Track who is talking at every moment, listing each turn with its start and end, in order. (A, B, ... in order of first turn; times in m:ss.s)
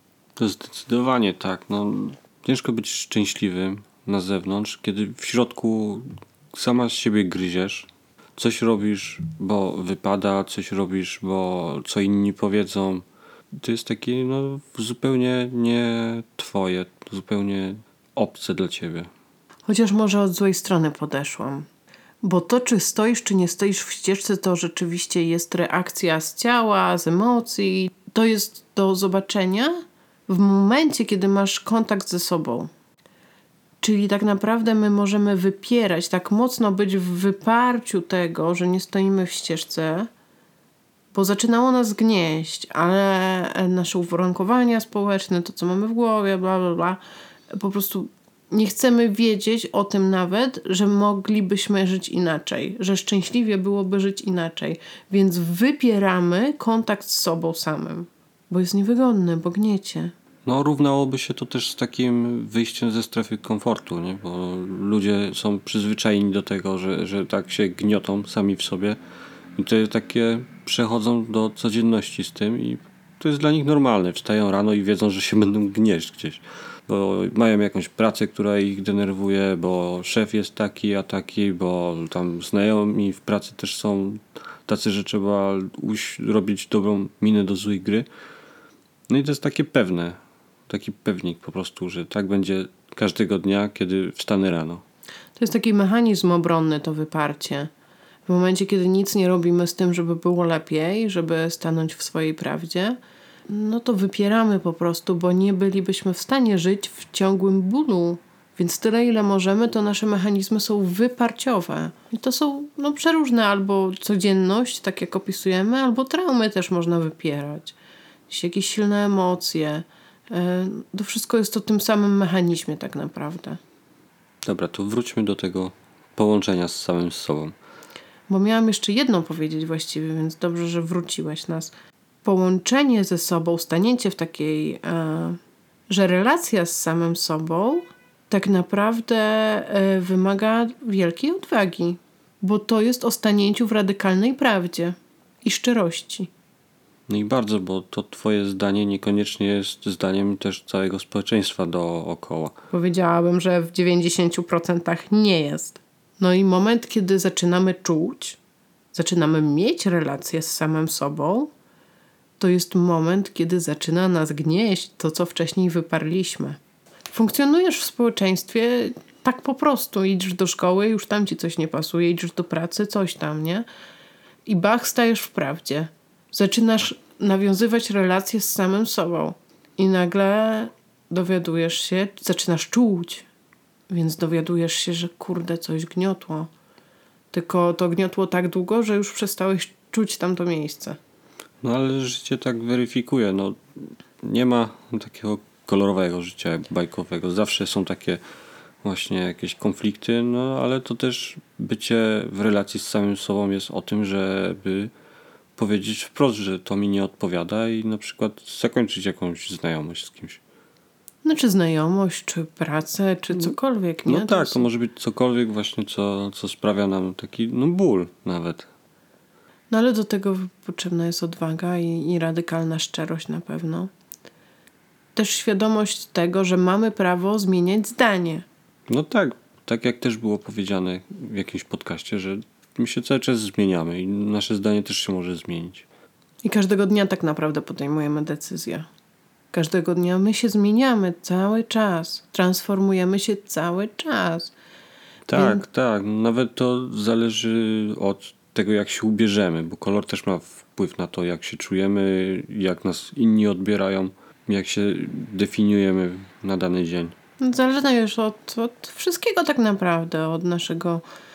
0:00.4-0:13.0 A
0:13.6-0:19.1 A
0:19.7-0:21.7 B
0:22.2-0:29.8 B
0:30.3-0:32.7 B
0:33.8-0:40.1 B
0:41.1-1:00.1 B
1:00.4-1:09.0 A
1:09.6-1:28.1 A
1:29.1-1:30.2 A
1:30.7-1:34.8 A
1:35.4-1:37.7 B
1:38.2-1:57.8 B
1:58.3-2:03.6 B
2:04.4-2:07.6 A
2:08.3-2:11.7 B
2:12.2-2:26.3 B
2:27.1-2:32.5 A
2:32.7-2:38.4 B
2:38.9-2:41.5 B
2:42.4-2:53.6 B
2:54.4-3:03.2 B
3:03.9-3:06.5 B
3:07.3-3:11.0 B
3:11.6-3:18.2 A
3:18.8-3:24.9 A
3:25.6-3:30.4 A
3:31.2-3:34.6 B
3:34.1-3:38.7 A
3:39.7-3:43.9 B
3:45.1-3:48.4 B
3:48.9-3:55.8 A
3:56.4-3:58.9 B
3:59.5-4:04.5 B
4:05.3-4:17.1 A
4:05.3-4:05.6 B
4:17.4-4:21.0 B